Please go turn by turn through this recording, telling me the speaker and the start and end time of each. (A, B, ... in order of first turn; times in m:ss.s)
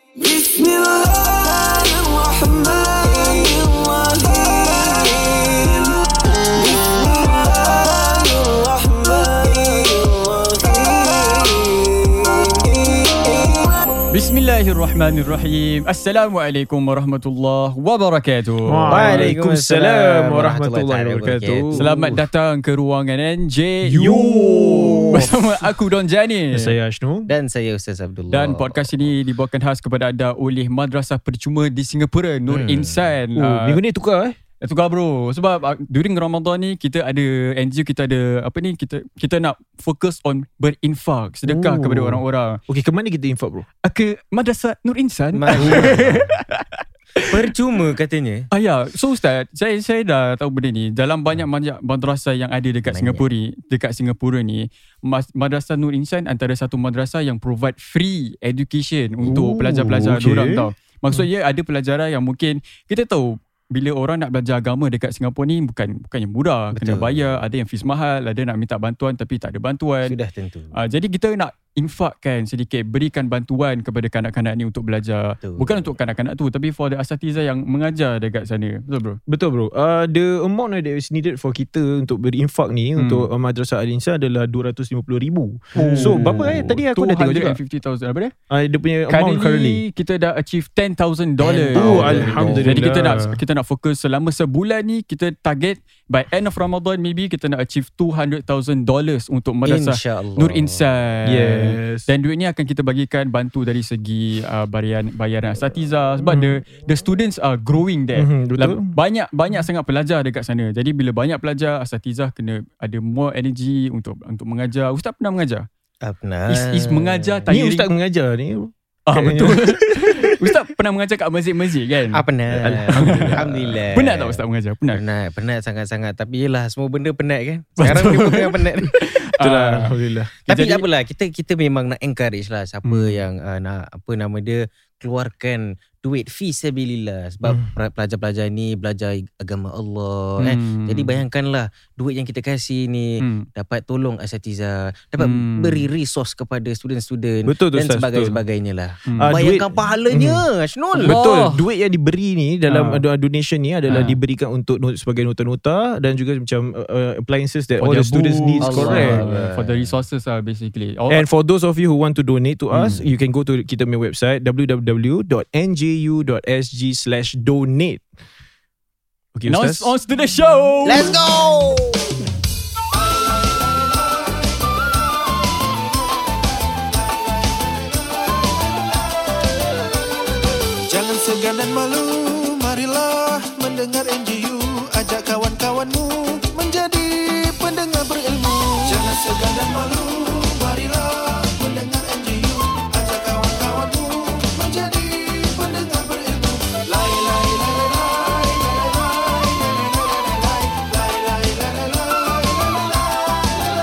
0:00.2-0:13.7 A
0:14.1-0:19.3 B
0:18.7-0:22.2 C
0:18.9-0:21.9 D
0:21.7-0:26.7 B
0:23.8-0:25.7 C
0:26.5-0:27.3 C
0:27.3-0:29.1 D
0:28.3-0:33.8 B
0:32.5-0:33.0 D
0:33.4-0:34.4 C
0:34.6-0:42.6 B
0:41.4-0:43.7 C
0:43.8-0:47.3 B
0:45.3-0:46.3 D
0:45.6-0:46.0 C
0:47.2-0:48.5 D
0:48.5-1:10.2 B
0:52.9-0:53.2 D
0:59.3-1:01.2 C
1:06.7-1:07.4 D
1:10.0-1:10.8 D
1:10.7-1:19.2 B
1:15.4-1:15.9 D
1:19.3-1:27.6 C
1:23.0-1:23.3 B
1:25.8-1:28.3 B
1:25.8-1:26.8 D
1:28.5-1:29.8 C
1:29.1-1:55.7 B
1:31.4-1:32.9 D
1:31.8-1:33.4 C
1:39.6-1:40.8 D
1:41.2-1:42.1 C
1:46.2-1:46.6 C
1:48.2-1:48.9 C
1:56.0-1:57.5 D
1:56.5-1:57.9 B
1:57.5-2:00.5 C
1:59.1-2:02.2 B
2:02.1-2:04.4 D
2:02.5-2:03.7 C
2:02.9-2:05.0 B
2:04.9-2:08.9 D
2:07.8-2:09.9 B
2:09.4-2:10.3 C
2:10.5-2:31.2 D
2:10.5-2:10.8 B
2:12.8-2:13.2 B
2:20.4-2:21.2 B
2:23.2-2:23.5 B
2:25.2-2:25.9 B
2:27.4-2:28.4 C
2:29.1-2:29.4 B
2:29.2-2:30.4 C
2:31.0-2:39.2 C
2:31.0-2:31.6 B
2:32.7-2:33.0 B
2:33.9-2:34.2 B
2:37.8-2:41.2 B
2:38.6-2:39.9 D
2:41.1-2:48.0 C
2:42.8-2:43.0 D
2:49.3-2:49.9 C
2:49.5-2:51.2 B
2:50.8-2:52.1 D
3:00.8-3:22.9 A